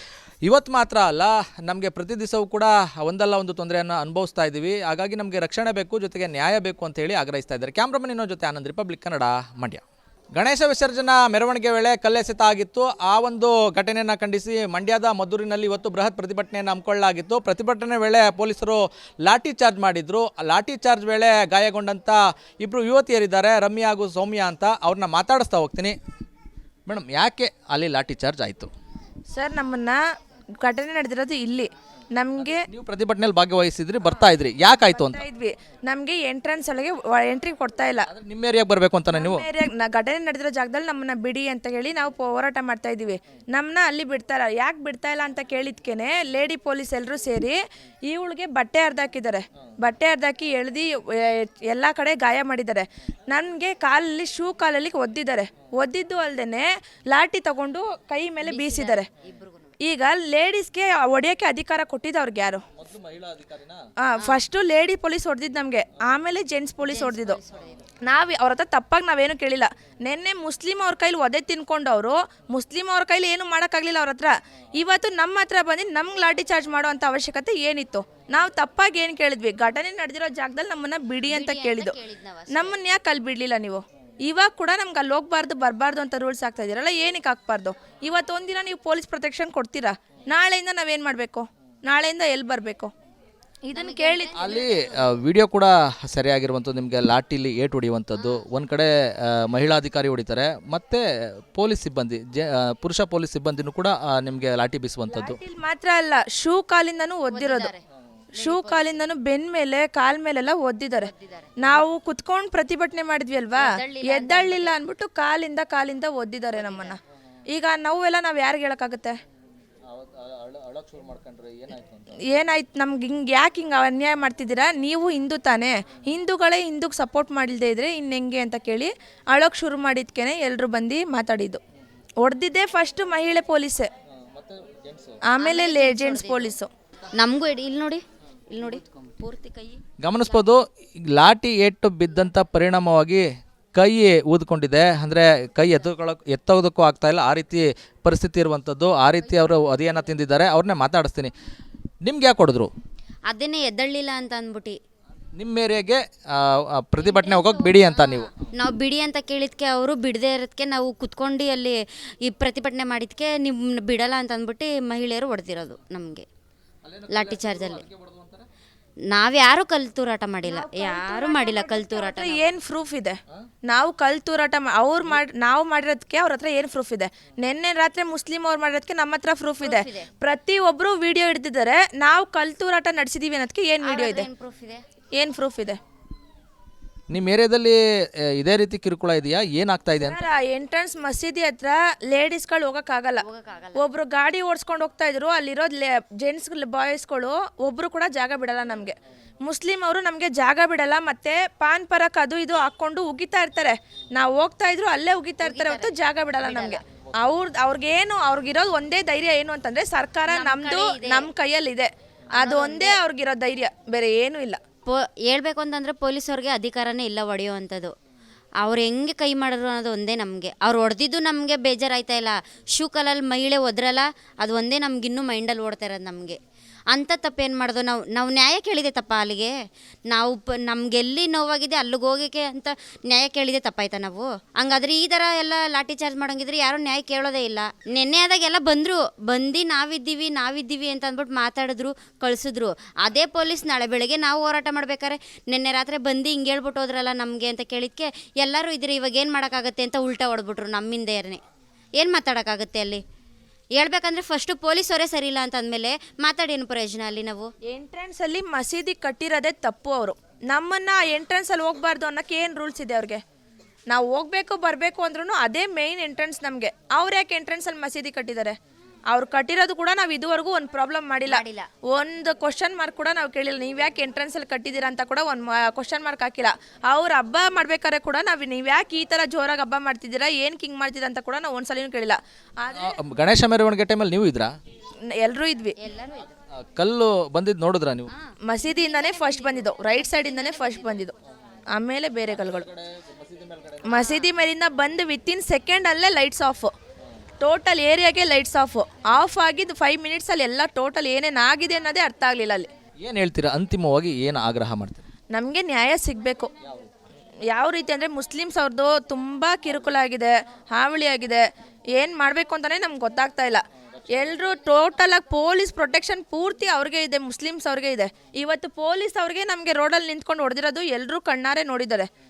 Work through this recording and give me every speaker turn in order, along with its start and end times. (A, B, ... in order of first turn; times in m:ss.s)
0:00.4-0:26.0 A
0:26.9-0:28.7 A
0:29.3-0:30.0 B
0:30.6-0:32.7 B
0:32.4-0:35.2 A
0:34.2-0:38.1 B
0:38.1-0:39.4 A
0:39.1-0:59.1 B
0:58.4-0:59.7 C
0:59.8-1:02.6 B
1:02.8-1:03.8 A
1:04.0-1:07.4 B
1:04.2-1:04.4 C
1:06.8-1:07.9 C
1:08.0-1:22.0 B
1:21.3-1:22.8 C
1:22.5-1:32.9 B
1:33.6-1:34.5 B
1:33.7-1:35.1 C
1:34.3-1:45.4 A
1:38.2-1:38.5 C
1:45.1-1:47.7 B
1:47.3-1:47.8 C
1:48.4-1:57.0 B
1:48.4-1:49.0 C
1:51.0-1:51.8 C
1:53.6-1:54.8 C
1:56.5-1:57.0 C
1:57.5-1:59.2 B
1:59.9-2:02.1 A
2:02.3-2:11.6 B
2:12.2-2:13.9 B
2:14.3-2:15.2 A
2:15.3-2:16.7 B
2:15.4-2:16.6 C
2:17.2-2:20.4 C
2:20.0-2:23.2 A
2:23.8-2:31.3 A
2:29.3-2:29.8 C
2:32.0-2:32.7 A
2:33.3-2:34.8 C
2:35.4-2:38.5 A
2:37.0-2:46.3 C
2:46.8-2:48.5 A
2:47.1-2:47.8 C
2:49.1-2:52.5 C
2:50.4-3:04.3 B
2:59.6-3:00.1 C
3:03.8-3:04.8 C
3:05.2-3:05.8 B
3:07.1-3:10.2 A
3:10.0-3:34.6 B
3:13.2-3:13.8 C
3:25.4-3:26.8 C
3:30.3-3:31.3 C
3:32.4-3:33.0 C
3:34.9-3:37.9 C
3:38.6-3:46.4 C
3:46.9-3:49.5 C
3:50.1-4:11.4 C
4:12.0-4:13.0 C
4:13.8-4:17.5 C
4:17.7-4:23.2 B
4:23.9-4:28.6 B
4:29.1-4:43.0 B
4:31.3-4:31.7 C
4:42.7-4:44.5 A
4:45.2-4:45.7 B
4:45.8-4:46.4 C
4:46.6-4:48.1 A
4:48.1-4:51.1 C
4:48.5-4:51.2 B
4:51.7-4:52.7 B
4:52.3-4:53.9 A
4:53.9-4:56.7 B
4:53.9-4:54.4 C
4:57.4-5:02.7 B
5:03.0-5:05.0 A
5:05.3-5:06.5 B
5:06.6-5:06.9 A
5:07.5-5:11.4 B
5:12.0-5:22.1 B
5:14.1-5:14.4 A